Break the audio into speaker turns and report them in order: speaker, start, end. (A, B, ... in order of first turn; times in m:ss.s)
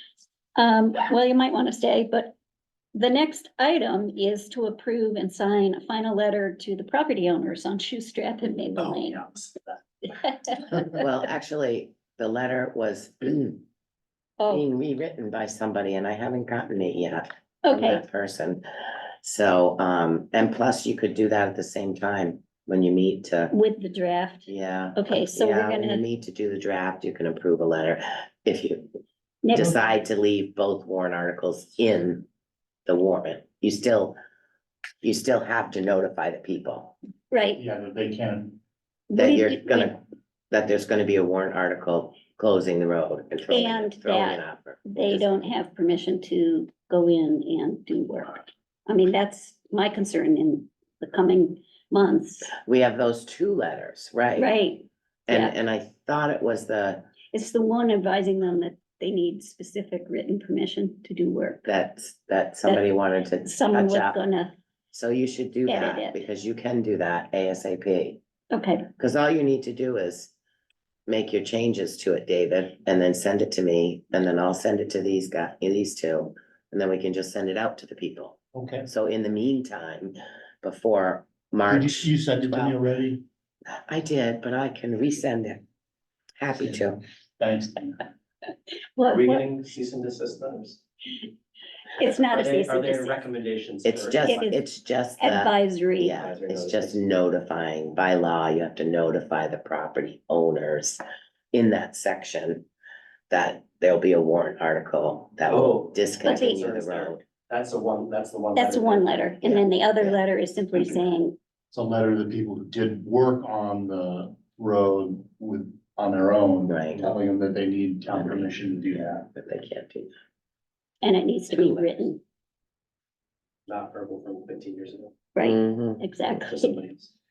0:00.6-0:02.4 A
0:02.9-0:09.4 A
0:10.2-0:10.7 A
0:11.0-0:13.6 B
0:14.4-0:14.6 A
0:14.5-0:18.6 B
0:17.6-0:18.0 A
0:19.2-0:23.6 B
0:23.5-0:26.0 A
0:24.5-0:28.9 B
0:29.4-0:29.8 A
0:29.5-0:32.3 B
0:32.9-0:34.2 B
0:35.0-0:37.0 B
0:37.3-0:37.6 A
0:37.6-0:38.6 C
0:39.1-0:40.0 A
0:39.2-0:40.0 B
0:40.5-0:45.4 B
0:43.5-0:52.5 A
0:52.6-0:54.5 B
0:54.4-0:55.6 A
0:55.3-0:57.1 B
0:57.3-1:01.6 A
1:01.7-1:04.2 B
1:03.4-1:04.5 A
1:04.9-1:08.2 B
1:05.7-1:06.2 A
1:08.5-1:08.9 A
1:09.0-1:10.3 B
1:11.1-1:22.8 B
1:18.6-1:18.9 C
1:21.7-1:23.2 C
1:23.9-1:25.6 B
1:26.4-1:27.0 B
1:27.4-1:27.9 C
1:29.0-1:29.4 A
1:29.0-1:30.8 D
1:32.0-1:33.2 A
1:32.2-1:34.5 D
1:33.8-1:41.0 B
1:34.2-1:34.6 A
1:35.2-1:36.2 A
1:36.1-1:37.0 D
1:41.5-1:42.7 B
1:43.3-1:47.2 B
1:45.4-1:49.3 D
1:46.2-1:46.6 A
1:48.6-1:51.4 A
1:49.4-1:50.2 B
1:51.7-1:59.2 C
1:56.7-1:57.1 B
1:58.1-2:00.1 B
2:01.0-2:02.2 A
2:01.5-2:02.1 B
2:03.7-2:05.3 D
2:05.4-2:06.8 A
2:05.4-2:06.0 B
2:06.4-2:07.1 D